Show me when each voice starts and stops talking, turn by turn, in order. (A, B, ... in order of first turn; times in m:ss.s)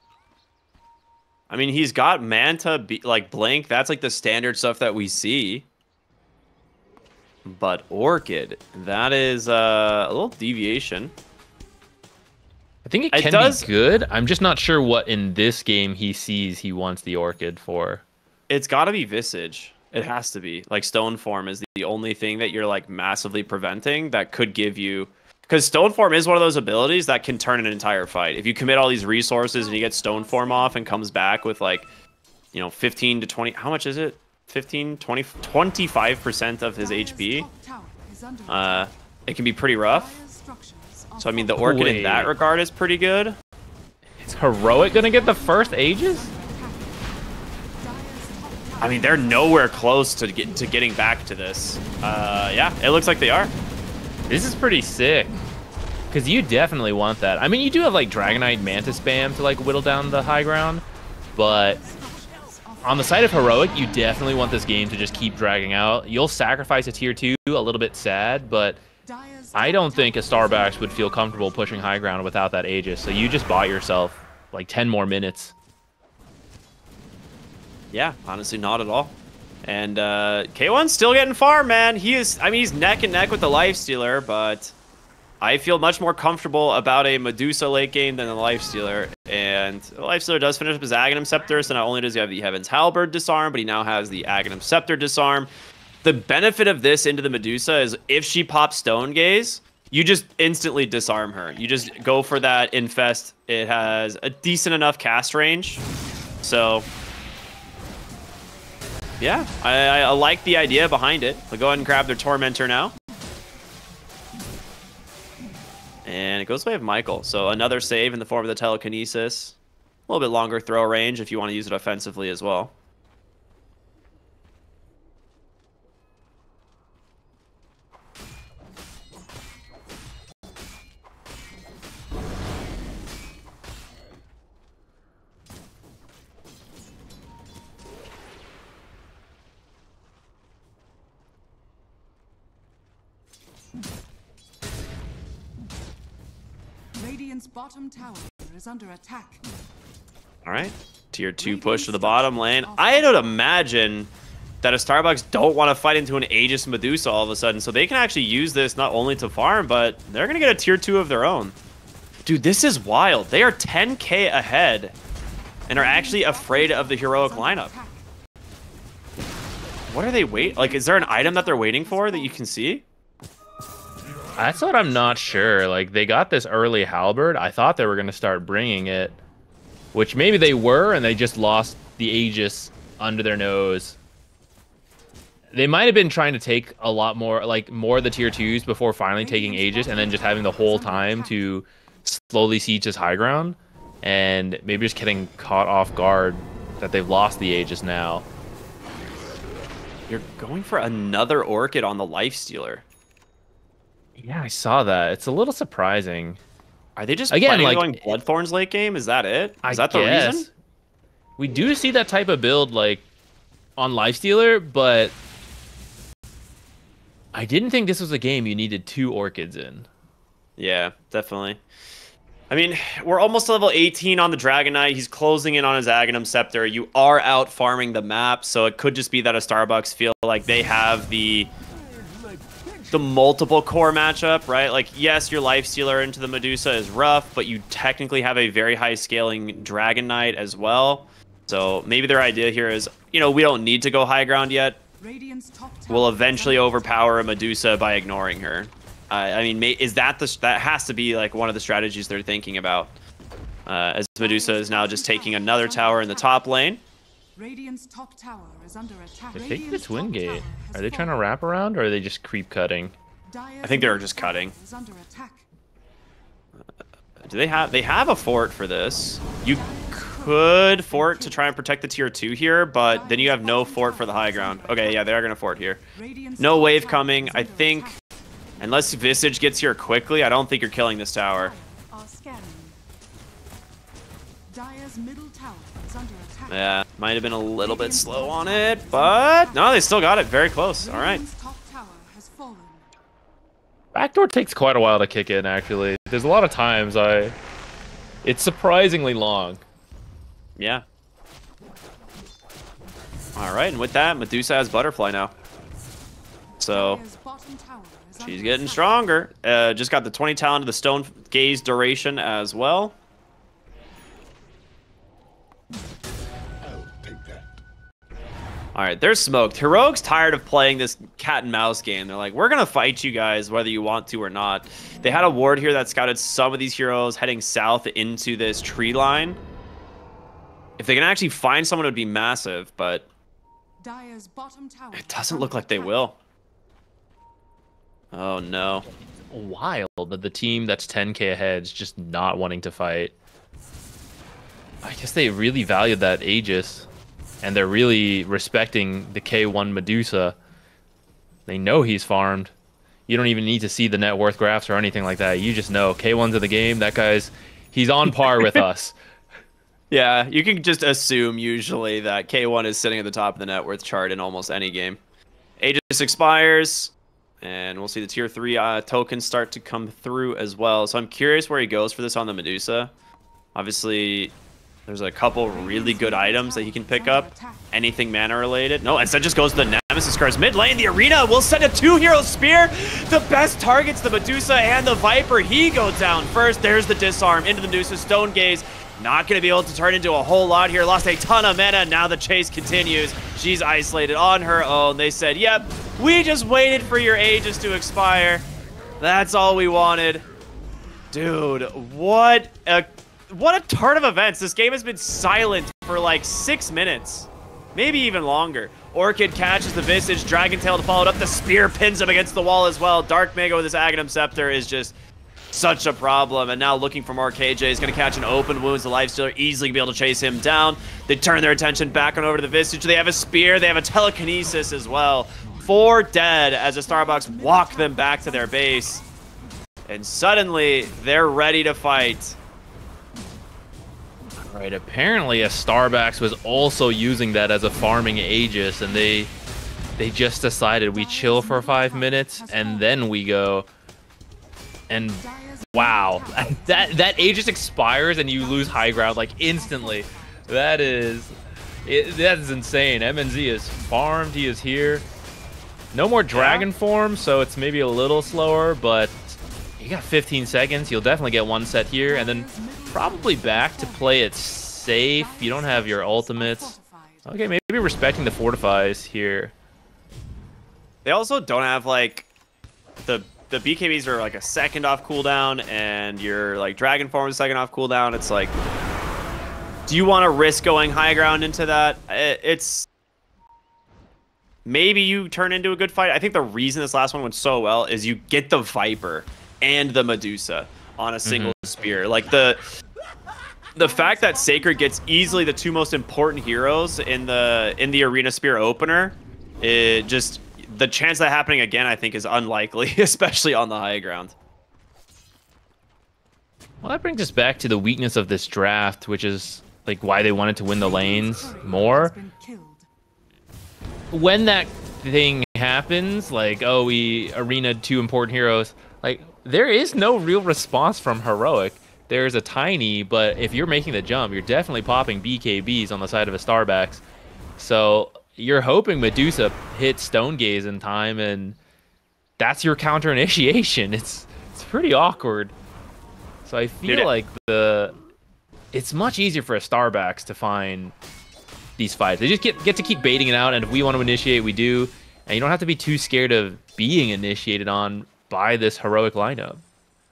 0:01.5-0:05.6 A
0:07.4-0:11.1 A
0:12.8-0:18.0 B
0:13.1-0:13.7 A
0:18.5-0:31.8 A
0:29.4-0:31.0 C
0:32.5-0:37.5 A
0:36.8-0:38.9 C
0:38.5-0:40.2 A
0:39.8-0:41.7 C
0:41.2-0:43.4 A
0:41.6-0:42.3 B
0:44.2-0:46.3 B
0:44.6-0:47.1 C
0:47.8-0:50.1 C
0:48.8-0:53.5 A
0:54.3-0:55.4 B
0:56.1-1:00.8 B
0:58.1-1:00.2 C
1:01.4-1:01.8 B
1:01.4-1:05.5 C
1:02.8-1:08.8 B
1:09.0-1:12.2 C
1:09.5-1:15.5 B
1:17.9-1:24.7 A
1:25.4-1:35.5 A
1:36.0-1:45.8 A
1:46.4-1:46.9 A
1:49.2-1:52.9 A
1:56.0-1:59.6 A
2:00.1-2:02.7 A
2:27.0-2:29.4 C
2:30.4-2:34.1 A
2:31.4-2:33.4 C
2:34.6-2:41.6 A
2:42.2-2:44.9 A
2:45.7-2:48.0 C
2:45.7-2:47.7 A
2:49.9-2:52.8 A
2:50.3-2:52.5 C
2:54.4-2:59.2 B
2:59.9-3:04.0 B
3:05.5-3:18.2 B
3:09.2-3:11.5 C
3:20.1-3:22.8 A
3:24.2-3:26.4 B
3:27.0-3:30.5 A
3:27.3-3:28.2 B
3:29.6-3:30.5 B
3:31.4-3:33.0 B
3:33.8-3:35.2 B
3:37.3-3:39.9 B
3:40.6-3:41.6 A
3:42.5-3:51.5 A
3:52.9-4:04.8 A
4:05.0-4:07.3 C
4:05.9-4:12.9 A
4:13.6-4:16.8 A
4:14.2-4:16.4 C
4:17.4-4:21.2 C
4:19.3-4:22.9 B
4:23.3-4:25.4 C
4:23.6-4:24.5 A
4:27.2-4:35.8 A
4:29.4-4:31.6 C
4:32.9-4:35.1 C
4:36.0-4:38.0 C
4:36.4-4:37.9 A
4:38.6-4:41.5 A
4:41.3-4:42.8 C
4:44.5-4:46.8 C
4:46.5-4:51.2 A
4:47.6-4:50.0 C
4:50.8-4:52.8 C
4:53.9-4:57.3 B
4:58.2-4:59.6 B
5:00.6-5:00.8 A
5:03.3-5:05.3 A
5:06.6-5:07.0 A
5:06.7-5:09.1 C
5:08.2-5:12.9 A
5:18.7-5:29.4 A
5:30.8-5:33.1 A
5:33.8-5:36.1 C
5:34.9-5:36.1 A
5:38.1-5:38.8 A
5:39.2-5:43.1 B
5:44.8-5:46.9 B
5:47.4-5:50.4 B
5:51.5-5:52.5 B
5:53.1-5:58.9 B
5:59.9-6:05.0 A
6:05.6-6:12.9 A
6:13.5-6:14.3 A
6:14.9-6:38.5 A
6:15.5-6:17.7 C
6:39.0-6:40.2 A
6:41.1-6:54.9 A
6:55.5-7:09.0 A
7:06.8-7:09.1 C
7:09.9-7:12.4 A
7:14.5-7:19.3 B
7:20.0-7:23.7 B
7:20.9-7:23.0 C
7:24.9-7:31.3 B
7:24.9-7:30.5 C
7:31.8-7:35.0 B
7:35.9-7:49.5 B
7:36.3-7:36.7 A
7:42.0-7:47.3 C
7:51.0-7:52.3 A
7:53.0-7:58.6 A
7:59.9-8:02.9 A
8:04.6-8:12.6 A
8:11.2-8:11.7 B
8:13.8-8:15.9 C
8:13.8-8:24.3 A
8:26.8-8:32.1 B
8:30.7-8:32.9 C
8:34.1-8:47.0 B
8:47.6-8:51.6 B
8:52.4-8:55.5 B
8:56.4-8:58.0 B
8:58.7-9:00.9 B
9:01.8-9:09.6 B